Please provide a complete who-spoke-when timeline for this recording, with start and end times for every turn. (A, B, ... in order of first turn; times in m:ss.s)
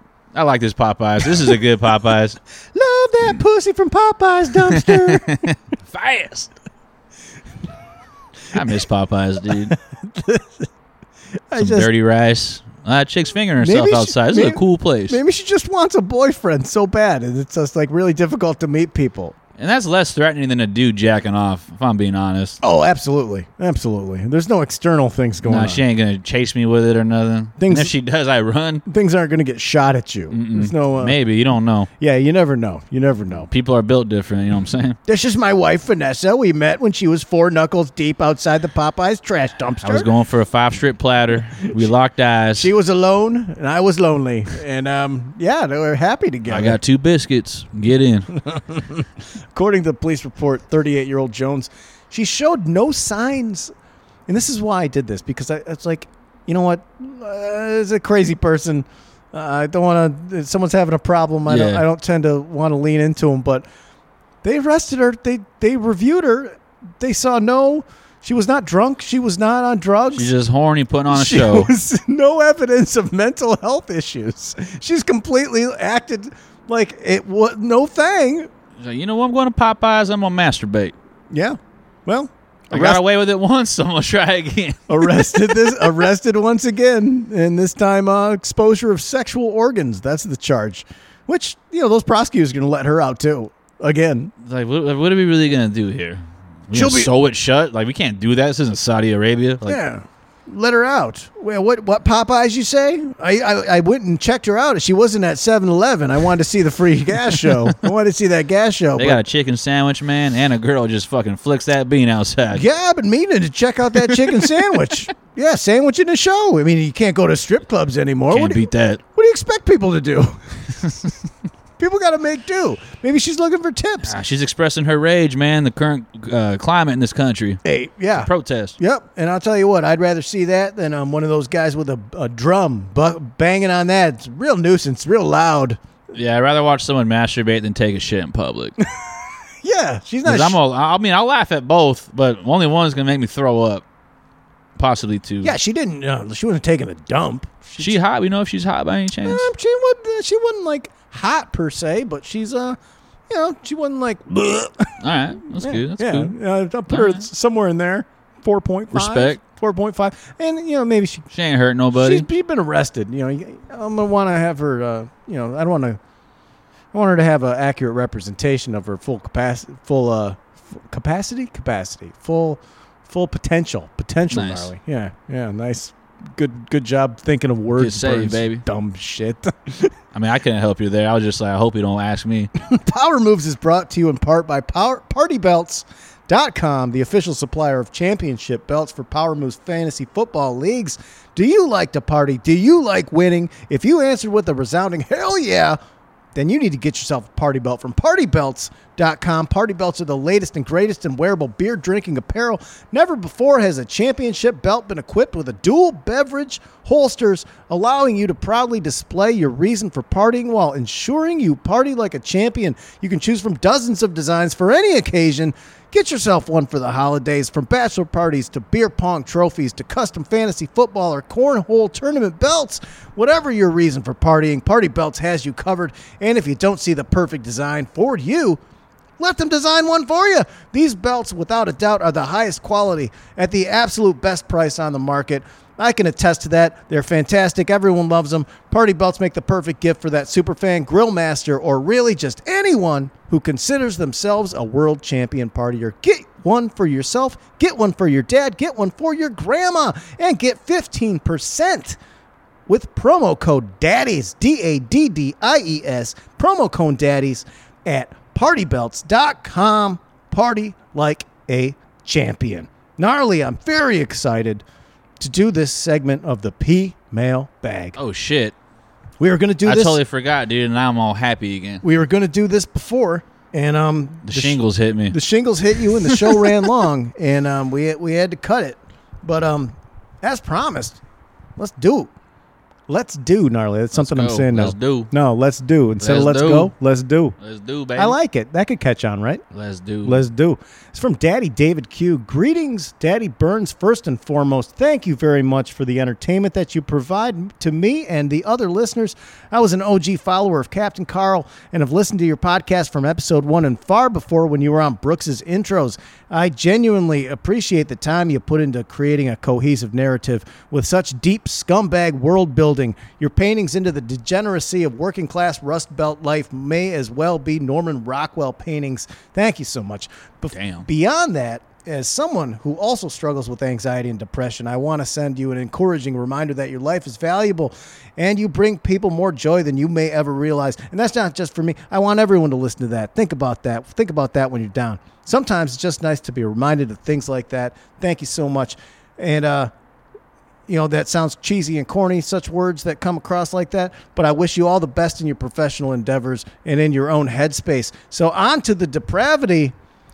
0:00.3-0:02.4 A
0:02.7-0:05.5 B
0:04.5-0:06.5 A
0:08.5-0:09.7 A
0:09.6-0:10.7 B
0:11.5-0:11.9 B
0:11.6-0:15.2 A
0:13.6-0:19.3 B
0:19.6-0:22.6 A
0:22.6-0:25.8 B
0:25.4-0:28.8 A
0:27.6-0:27.9 B
0:28.8-0:31.2 B
0:30.3-0:31.9 A
0:32.0-0:33.5 B
0:33.5-0:35.0 A
0:35.1-0:40.1 B
0:39.8-0:42.7 A
0:41.6-0:41.9 B
0:42.5-0:46.8 B
0:46.5-0:48.3 A
0:48.4-0:53.7 B
0:54.3-1:03.6 B
1:01.5-1:01.8 A
1:04.4-1:10.3 B
1:10.1-1:11.7 A
1:11.1-1:18.5 B
1:18.8-1:20.9 A
1:21.3-1:23.0 B
1:22.7-1:26.0 A
1:24.9-1:34.3 B
1:34.4-1:39.8 A
1:36.7-1:37.1 B
1:39.6-1:49.2 B
1:49.0-1:52.6 A
1:52.5-2:00.5 B
1:54.0-1:54.8 A
1:58.3-1:59.0 A
2:01.8-2:04.1 B
2:04.0-2:07.6 A
2:07.6-2:15.8 B
2:08.1-2:08.8 A
2:16.1-2:18.8 A
2:19.6-2:20.6 B
2:20.2-2:23.8 A
2:24.8-2:25.5 A
2:25.4-2:28.0 B
2:27.8-2:29.5 A
2:29.2-2:32.8 B
2:33.3-2:35.0 B
2:35.0-2:36.3 A
2:35.6-2:41.3 B
2:36.9-2:37.2 A
2:38.9-2:39.4 A
2:41.3-2:42.3 A
2:41.9-2:46.0 B
2:46.9-2:59.9 B
2:54.3-2:54.7 A
2:57.8-2:58.6 A
3:00.1-3:02.5 A
3:02.6-3:15.8 B
3:16.3-3:48.6 B
3:49.2-4:12.0 B
4:12.7-4:24.6 B
4:25.2-4:28.0 B
4:28.0-4:28.5 A
4:29.2-4:30.0 B
4:29.6-4:31.8 A
4:31.8-4:41.0 B
4:34.2-4:35.2 A
4:35.9-4:36.7 A
4:41.6-4:42.1 B
4:42.9-4:47.3 B
4:43.9-4:45.1 A
4:46.0-4:46.7 A
4:47.4-4:48.2 A
4:48.0-4:49.4 B
4:49.5-4:50.2 A
4:50.0-5:39.7 B
5:20.5-5:20.9 A
5:40.7-5:49.7 B